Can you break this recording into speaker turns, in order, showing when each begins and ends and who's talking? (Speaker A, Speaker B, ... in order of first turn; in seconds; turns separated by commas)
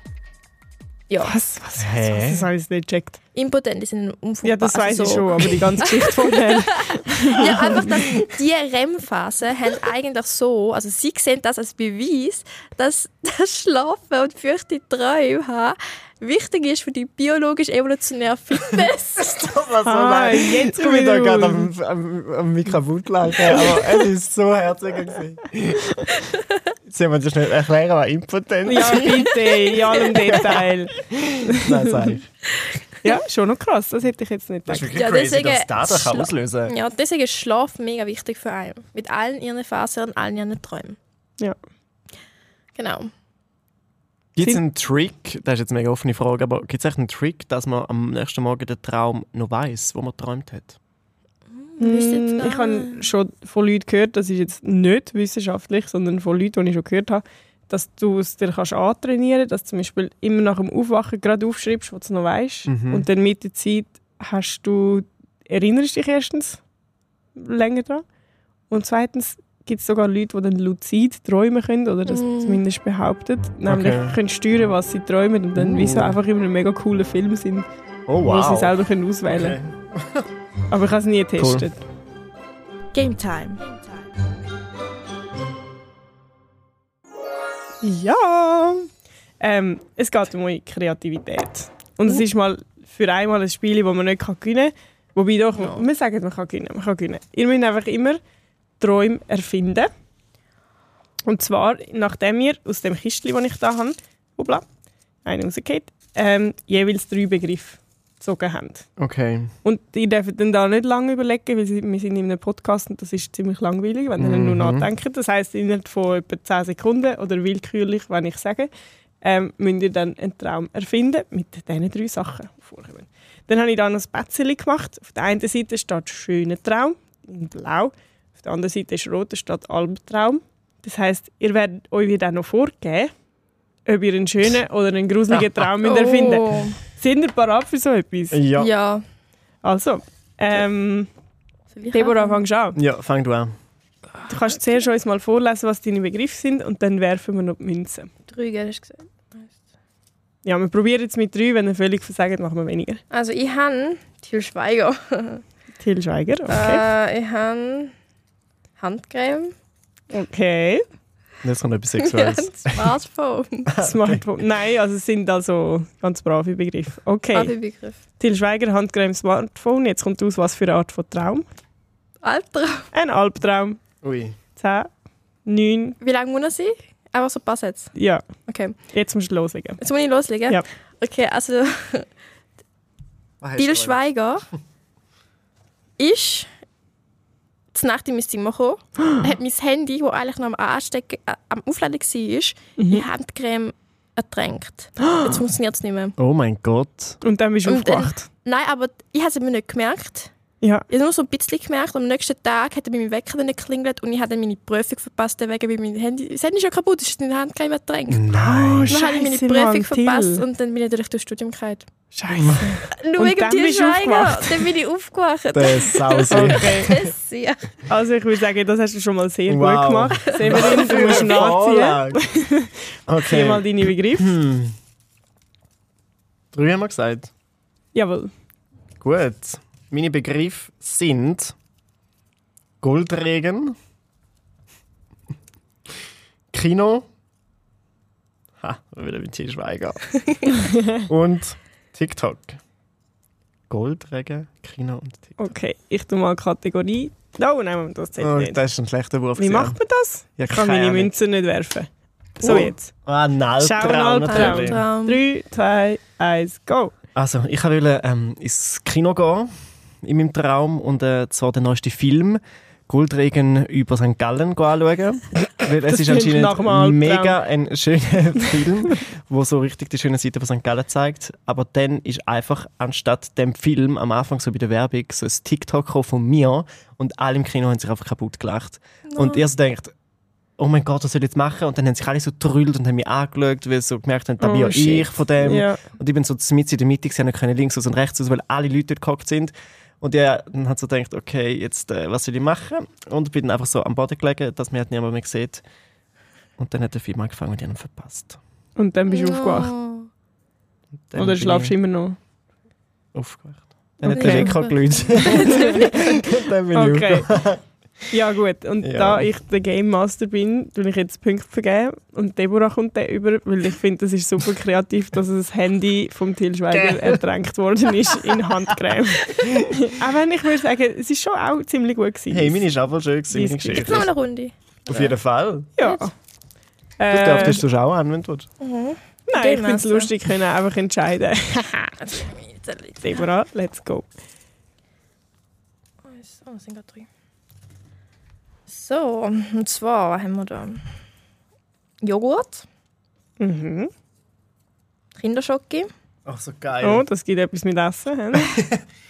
Speaker A: 1.1-1.3, Speaker B: 1.2-3.2, Speaker C: 1.8-2.5, Speaker A: 3.3-19.3, Speaker B: 4.4-8.2, Speaker C: 19.2-25.9, Speaker B: 19.8-21.7, Speaker C: 26.9-32.2, Speaker B: 28.6-32.1, Speaker A: 32.6-33.1, Speaker B: 33.0-34.9, Speaker C: 34.7-36.7, Speaker A: 34.9-41.0, Speaker A: 42.8-43.1, Speaker C: 44.4-50.8, Speaker A: 51.5-53.1, Speaker B: 51.8-66.6, Speaker C: 62.7-63.1, Speaker B: 67.3-68.0, Speaker B: 68.7-77.7, Speaker A: 72.1-72.6, Speaker C: 73.7-74.2, Speaker C: 75.5-76.2, Speaker C: 78.1-78.8, Speaker B: 78.2-79.6, Speaker C: 79.3-80.3, Speaker B: 80.7-81.8, Speaker C: 81.4-81.7, Speaker A: 82.9-83.6, Speaker B: 87.8-88.9, Speaker B: 89.4-98.2, Speaker A: 95.5-95.8, Speaker B: 98.8-99.9, Speaker B: 101.2-104.6, Speaker B: 105.2-108.9, Speaker C: 109.0-109.5, Speaker B: 109.6-118.7, Speaker C: 114.2-114.9, Speaker B: 119.2-133.1, Speaker B: 133.8-138.4, Speaker A: 135.8-136.8, Speaker C: 138.3-138.7, Speaker A: 138.6-139.0, Speaker B: 139.6-141.1, Speaker A: 141.7-142.4, Speaker B: 141.9-142.8, Speaker C: 142.7-143.5, Speaker B: 144.3-148.1, Speaker A: 148.3-149.5, Speaker B: 150.4-153.0, Speaker A: 153.1-155.4, Speaker B: 155.8-156.8, Speaker A: 156.5-157.9, Speaker A: 158.8-159.5, Speaker B: 160.1-160.8, Speaker C: 161.4-162.9, Speaker A: 162.0-163.7, Speaker C: 163.7-164.2, Speaker B: 163.8-167.5, Speaker A: 167.3-168.0, Speaker B: 168.2-171.4, Speaker A: 172.2-172.9, Speaker B: 172.9-173.8, Speaker C: 174.0-174.4, Speaker B: 174.6-174.9, Speaker B: 175.4-176.0, Speaker A: 176.0-177.9, Speaker B: 177.9-178.2, Speaker A: 178.4-178.8, Speaker B: 178.9-179.8, Speaker A: 179.8-182.1, Speaker C: 183.4-184.0, Speaker A: 183.6-184.4, Speaker A: 186.0-186.5, Speaker A: 187.7-196.1, Speaker B: 192.8-193.1, Speaker B: 195.0-195.3, Speaker C: 196.2-197.2, Speaker B: 197.2-198.3, Speaker A: 197.6-200.3, Speaker A: 200.9-208.3, Speaker C: 208.1-209.0, Speaker B: 208.3-210.4, Speaker A: 208.9-211.9, Speaker B: 212.1-214.7, Speaker C: 212.3-212.7, Speaker A: 212.9-217.7, Speaker C: 215.5-217.1, Speaker B: 216.3-216.9, Speaker B: 217.9-224.3, Speaker C: 219.5-222.2, Speaker A: 220.3-221.2, Speaker C: 223.1-224.8, Speaker C: 226.5-227.3, Speaker B: 227.9-228.3, Speaker C: 229.0-231.5, Speaker C: 232.8-233.8, Speaker C: 236.5-237.1, Speaker C: 238.6-240.0, Speaker A: 240.2-240.5, Speaker C: 241.1-242.6, Speaker C: 243.7-245.5, Speaker B: 245.4-248.6, Speaker C: 248.2-249.8, Speaker B: 249.4-251.9, Speaker C: 250.4-251.1, Speaker B: 252.4-252.9, Speaker C: 252.4-254.8, Speaker B: 253.6-256.9, Speaker A: 254.3-255.2, Speaker C: 257.1-259.5, Speaker C: 260.0-279.9, Speaker B: 265.9-267.4, Speaker A: 279.1-279.4, Speaker C: 280.6-295.6, Speaker B: 284.4-285.8, Speaker C: 296.6-298.4, Speaker B: 298.8-299.7, Speaker A: 299.1-300.1, Speaker C: 301.1-301.7, Speaker B: 301.1-302.2, Speaker C: 303.1-307.6, Speaker B: 304.0-304.6, Speaker A: 304.1-306.2, Speaker B: 305.3-305.9, Speaker B: 306.7-307.3, Speaker B: 308.1-322.6, Speaker C: 308.8-309.3, Speaker C: 316.7-317.2, Speaker C: 319.3-319.7, Speaker C: 322.3-324.1, Speaker B: 323.3-324.0, Speaker A: 323.8-325.1, Speaker C: 324.9-325.7, Speaker B: 325.8-326.1, Speaker B: 327.0-327.6, Speaker C: 327.1-328.5, Speaker A: 328.6-330.1, Speaker B: 329.3-332.0, Speaker A: 332.0-333.2, Speaker B: 333.0-334.1, Speaker A: 336.1-337.1, Speaker A: 338.7-340.8, Speaker A: 342.0-342.6, Speaker B: 343.4-343.9, Speaker A: 345.2-345.9, Speaker C: 346.2-347.0, Speaker B: 346.8-348.6, Speaker C: 348.5-348.8